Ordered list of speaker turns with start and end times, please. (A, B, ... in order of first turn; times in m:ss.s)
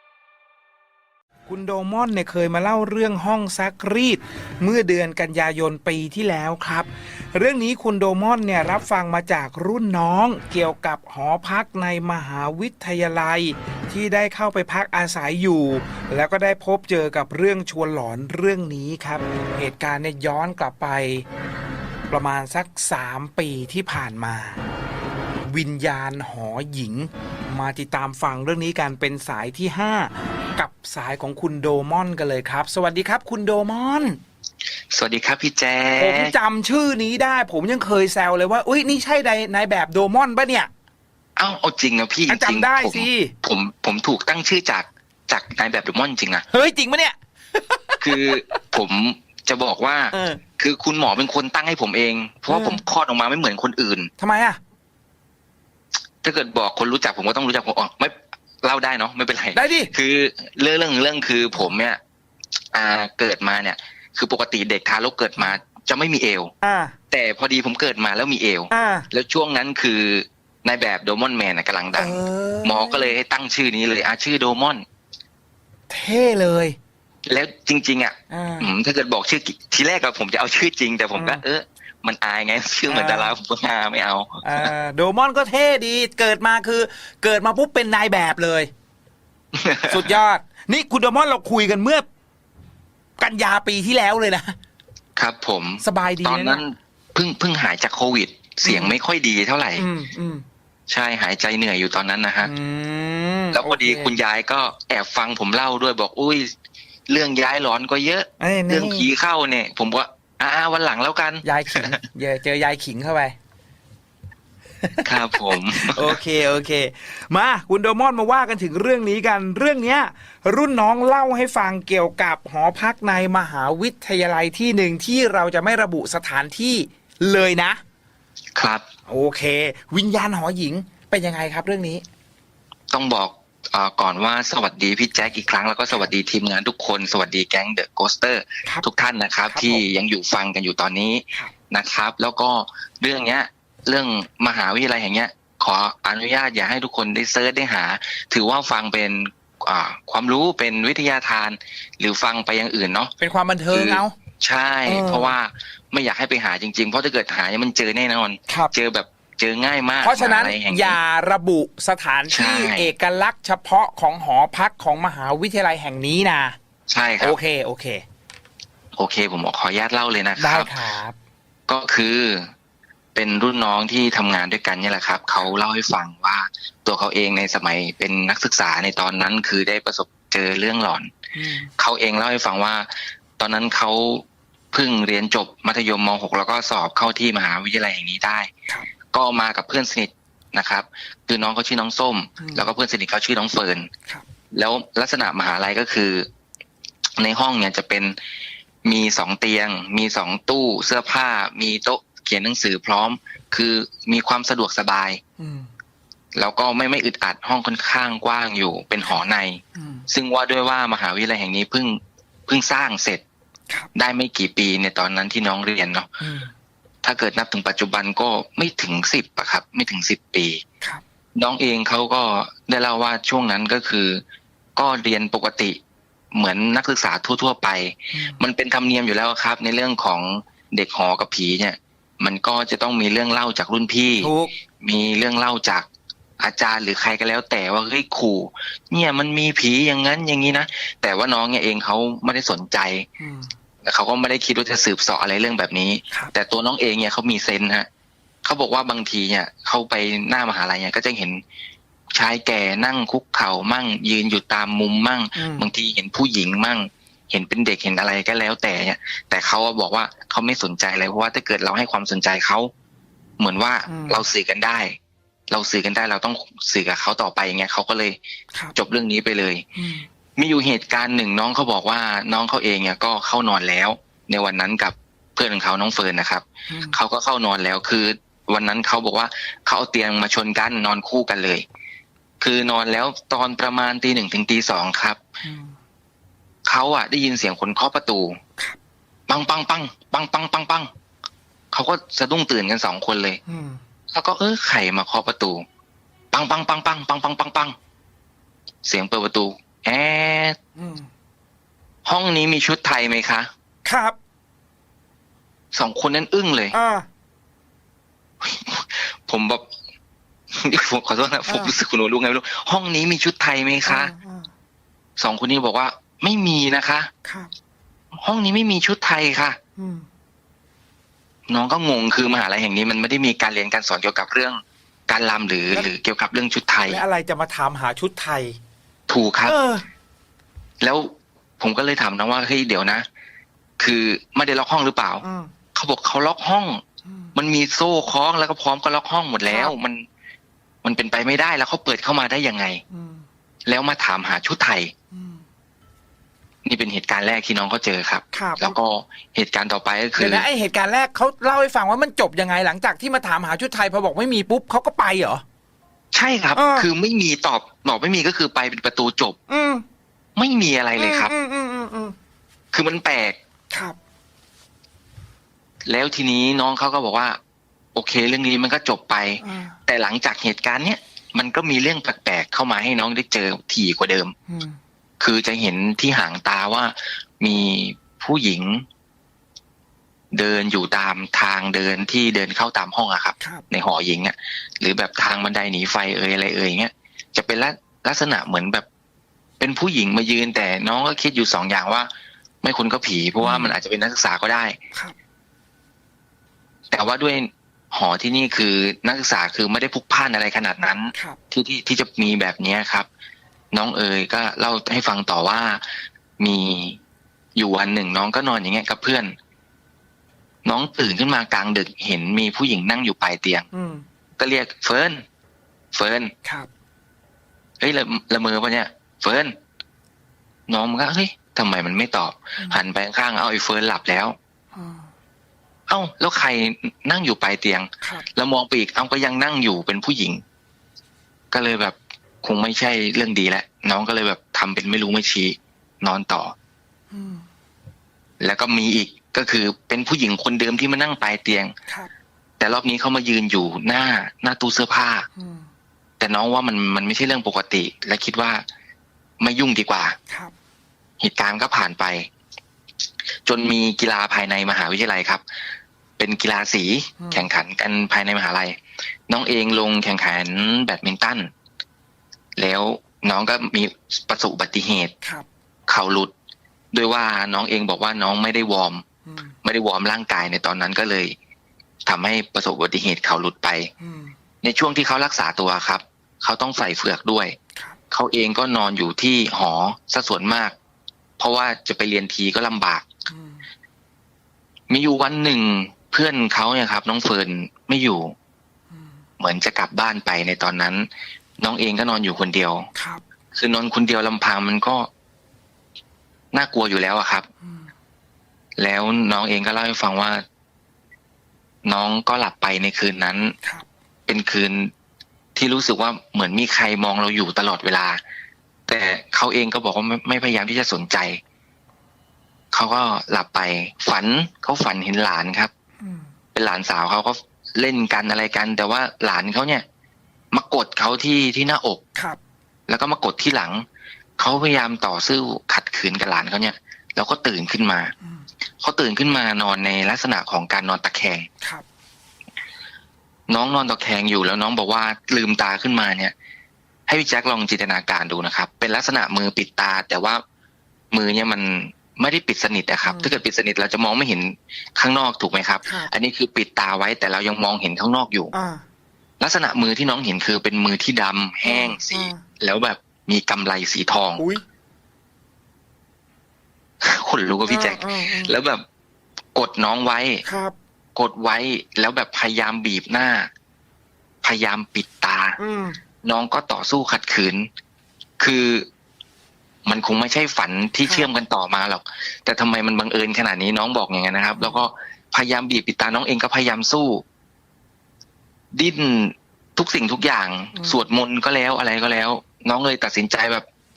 0:01.5-0:21.2 A
0:22.1-0:24.6 A
0:25.5-0:34.2 A
0:34.9-0:36.3 B
0:36.0-0:40.7 A
0:41.4-0:46.4 B
0:42.3-0:43.3 A
0:46.5-0:48.6 A
0:48.0-0:54.1 B
0:50.1-0:50.4 A
0:52.5-0:52.8 A
0:54.2-0:54.6 A
0:56.2-1:02.0 B
0:59.5-0:59.9 A
1:02.7-1:06.5 B
1:06.6-1:06.9 A
1:07.1-1:14.8 B
1:08.7-1:09.1 A
1:11.9-1:13.1 A
1:15.9-1:16.8 A
1:17.2-1:24.7 B
1:18.3-1:18.7 A
1:21.1-1:21.4 A
1:22.9-1:23.3 A
1:24.4-1:28.7 A
1:29.5-1:30.1 B
1:29.9-1:32.0 A
1:33.2-1:34.5 A
1:35.2-1:39.8 B
1:35.8-1:36.6 A
1:38.6-1:39.0 A
1:39.8-1:40.4 A
1:40.9-1:42.5 B
1:42.4-1:44.2 A
1:43.5-1:46.5 B
1:47.1-1:52.0 B
1:48.4-1:49.1 A
1:51.4-1:53.3 A
1:54.8-2:07.8 A
1:55.0-1:56.2 B
2:08.6-2:08.8 B
2:09.1-2:12.0 A
2:12.9-2:33.1 B
2:19.5-2:19.8 A
2:33.2-2:34.1 A
2:33.7-2:41.0 B
2:34.8-2:35.3 A
2:38.5-2:38.7 A
2:40.0-2:46.6 A
2:42.3-2:42.9 B
2:46.9-2:47.4 B
2:47.2-2:48.0 A
2:49.0-2:50.7 B
2:50.4-2:51.2 A
2:51.7-2:52.5 B
2:53.1-3:01.1 B
3:01.3-3:01.7 A
3:01.8-3:08.5 B
3:09.1-3:13.9 B
3:12.4-3:12.7 A
3:14.5-3:16.3 B
3:17.2-3:18.2 B
3:18.8-3:25.2 B
3:25.4-3:25.7 A
3:26.4-3:33.2 B
3:29.8-3:30.0 A
3:33.9-3:36.1 B
3:36.2-3:36.5 A
3:37.0-3:40.6 B
3:41.4-3:44.2 B
3:44.8-3:45.8 B
3:46.3-3:55.8 B
3:48.1-3:48.4 A
3:54.2-3:54.5 A
3:56.4-4:03.0 B
4:03.2-4:03.5 A
4:03.8-4:07.9 B
4:08.4-4:11.4 B
4:12.1-4:22.7 B
4:15.3-4:15.7 A
4:23.4-4:25.0 B
4:23.9-4:24.2 A
4:25.5-4:28.2 B
4:28.8-4:29.6 B
4:29.8-4:30.0 A
4:30.4-4:41.6 B
4:36.7-4:37.0 A
4:42.4-4:45.2 B
4:45.4-4:45.7 A
4:46.6-4:48.4 B
4:49.3-4:50.9 B
4:51.7-4:53.4 B
4:53.5-4:53.8 A
4:54.1-4:55.6 B
4:56.3-4:57.7 B
4:58.8-5:00.6 B
5:00.8-5:01.1 A
5:02.0-5:03.5 B
5:03.8-5:04.2 A
5:05.7-5:06.8 B
5:06.7-5:07.0 A
5:08.4-5:09.7 B
5:10.5-5:14.1 B
5:11.5-5:11.8 A
5:13.8-5:14.5 A
5:15.2-5:17.1 B
5:17.2-5:17.5 A
5:18.2-5:19.6 B
5:19.8-5:20.1 A
5:21.5-5:27.0 B
5:26.9-5:28.6 A
5:29.1-5:29.6 B
5:29.4-5:29.8 A
5:30.8-5:33.0 B
5:33.8-5:35.2 B
5:35.2-5:35.5 A
5:35.7-5:36.8 B
5:37.0-5:37.3 A
5:37.3-5:40.0 B
5:39.4-5:39.8 A
5:40.8-5:42.8 B
5:42.9-5:43.2 A
5:43.7-5:44.9 B
5:45.1-5:45.4 A
5:46.6-5:50.4 B
5:48.3-5:48.8 A
5:50.2-5:55.4 A
5:56.1-5:59.4 B
5:56.5-5:56.9 A
5:59.5-5:59.8 A
6:00.4-6:01.3 B
6:01.0-6:02.1 A
6:02.7-6:03.4 B
6:05.8-6:07.4 B
6:07.9-6:14.3 B
6:09.4-6:09.8 A
6:14.5-6:14.8 A
6:15.2-6:18.8 B
6:20.3-6:28.8 B
6:29.6-6:32.1 B
6:32.6-6:34.8 B
6:33.4-6:33.8 A
6:36.9-6:43.1 B
6:43.7-6:45.8 B
6:46.4-6:47.0 B
6:47.6-6:49.3 B
6:50.6-6:53.7 B
6:53.7-6:54.0 A
6:54.4-6:55.2 B
6:55.9-6:56.3 B
6:57.8-6:59.6 B
7:00.7-7:04.4 B
7:04.7-7:05.1 A
7:05.9-7:10.4 B
7:08.0-7:08.3 A
7:11.5-7:16.5 B
7:17.1-7:17.4 A
7:18.4-7:21.7 B
7:22.6-7:25.3 B
7:25.4-7:25.7 A
7:26.2-7:28.6 B
7:29.4-7:30.2 B
7:31.2-7:32.3 B
7:33.4-7:35.4 B
7:36.2-7:38.7 B
7:37.2-7:37.5 A
7:39.3-7:41.5 B
7:42.6-7:45.1 B
7:45.9-7:46.3 B
7:46.9-7:49.0 B
7:49.3-7:49.5 A
7:49.6-7:51.4 B
7:52.0-7:53.9 B
7:54.0-7:54.3 A
7:54.6-7:57.6 B
7:58.1-8:00.7 B
8:01.4-8:03.0 B
8:03.3-8:03.6 A
8:04.9-8:08.3 B
8:09.4-8:11.1 B
8:11.6-8:12.9 B
8:13.0-8:13.2 A
8:13.5-8:15.1 B
8:16.5-8:17.5 B
8:18.8-8:20.4 B
8:21.8-8:23.5 B
8:24.3-8:24.9 B
8:25.6-8:28.2 B
8:28.9-8:31.4 B
8:32.7-8:35.7 B
8:36.0-8:36.3 A
8:36.5-8:39.8 B
8:40.5-8:42.0 B
8:42.9-8:43.8 B
8:44.4-8:48.1 B
8:48.8-8:51.5 B
8:53.5-8:56.3 B
8:57.1-9:00.4 B
9:01.1-9:08.5 B
9:03.0-9:03.4 A
9:05.8-9:06.1 A
9:08.5-9:08.8 A
9:09.4-9:14.4 B
9:11.6-9:12.4 A
9:14.4-9:14.6 A
9:17.0-9:18.8 B
9:17.7-9:18.6 A
9:19.5-9:20.4 B
9:20.4-9:20.7 A
9:21.2-9:23.5 B
9:24.4-9:25.6 B
9:25.6-9:26.0 A
9:26.2-9:27.7 B
9:28.4-9:28.8 B
9:29.8-9:37.2 B
9:31.0-9:31.3 A
9:34.5-9:34.8 A
9:38.7-9:43.6 B
9:40.7-9:41.0 A